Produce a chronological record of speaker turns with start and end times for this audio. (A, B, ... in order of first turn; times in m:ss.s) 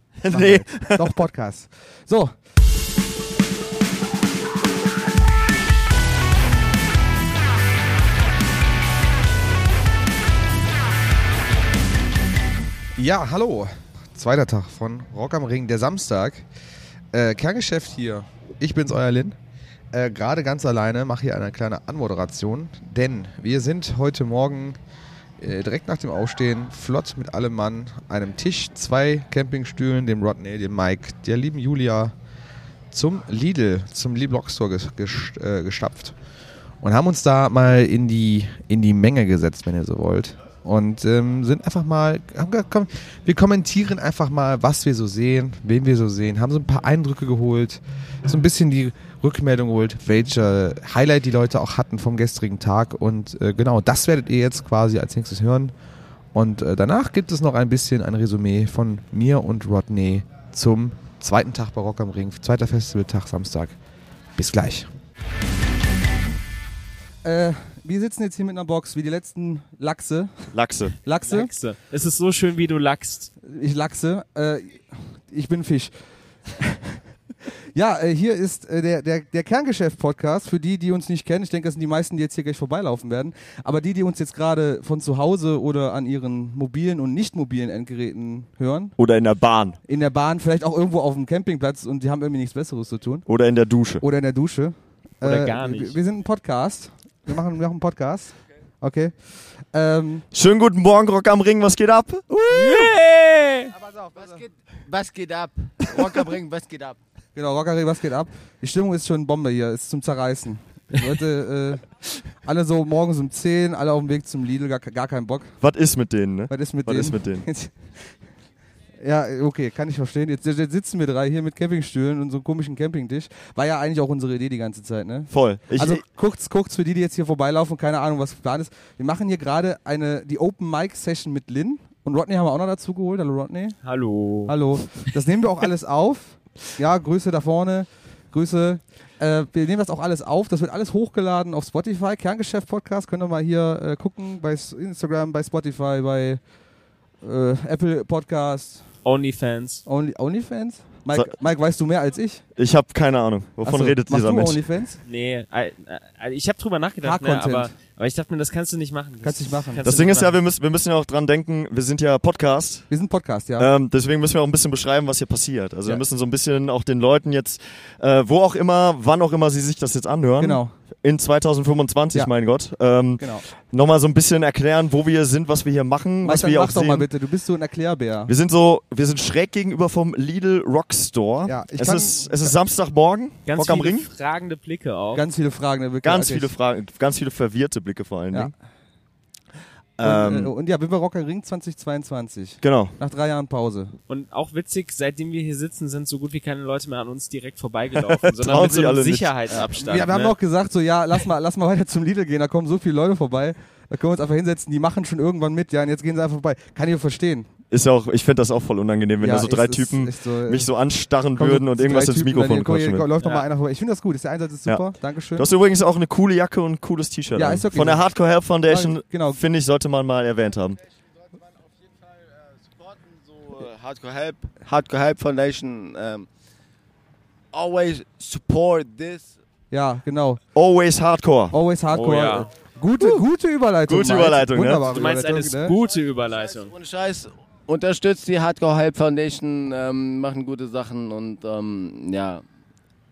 0:00.2-0:01.0 A
0:00.3-0:02.3 B
0:13.0-0:16.4 B
0:17.1-0:19.4 B
0:19.9-0:24.8 B
0:25.4-0:32.1 B
0:32.9-0:36.1 B
0:36.8-0:55.7 B
0:56.3-1:03.8 B
1:04.4-1:04.9 B
1:07.2-1:11.5 B
1:10.5-1:10.9 A
1:11.2-1:13.3 C
1:13.4-1:15.9 B
1:16.6-1:17.0 B
1:17.7-1:28.9 B
1:29.0-1:29.8 A
1:29.9-1:33.3 B
1:33.3-1:34.0 A
1:34.0-1:40.2 B
1:35.2-1:36.0 C
1:40.3-1:42.2 A
1:42.3-1:42.9 B
1:42.5-1:43.7 C
1:44.0-1:44.4 B
1:44.1-1:47.0 D
1:47.4-1:51.9 B
1:52.4-1:55.5 B
1:55.6-1:57.4 A
1:56.5-1:57.7 B
1:59.0-2:13.8 B
2:05.3-2:06.0 A
2:13.8-2:14.5 C
2:14.4-2:26.4 B
2:27.2-2:28.8 B
2:29.0-2:29.8 C
2:29.8-2:32.4 B
2:32.6-2:34.6 A
2:33.6-2:35.0 B
2:35.0-2:40.4 C
2:37.0-2:37.7 B
2:39.2-2:39.8 B
2:39.8-2:42.8 A
2:42.9-2:43.7 B
2:43.6-2:57.1 A
2:50.4-2:50.7 B
2:56.2-2:58.3 B
2:58.3-3:04.1 A
3:01.4-3:02.6 B
3:03.5-3:05.2 C
3:05.1-3:06.5 B
3:06.0-3:08.5 A
3:10.0-3:10.5 A
3:10.0-3:13.9 B
3:12.6-3:13.0 A
3:14.1-3:20.3 C
3:18.0-3:20.1 A
3:19.5-3:27.5 B
3:27.7-3:33.1 A
3:29.2-3:30.7 B
3:31.3-3:35.5 B
3:35.3-3:40.8 A
3:37.3-3:38.0 B
3:38.6-3:39.4 B
3:42.8-3:46.3 D
3:47.5-3:49.3 D
3:49.7-3:50.4 B
3:50.5-3:51.5 A
3:51.5-3:55.8 B
3:51.9-3:52.5 C
3:53.0-3:53.2 A
3:53.8-3:54.9 A
3:54.9-3:56.7 C
3:56.7-4:02.4 D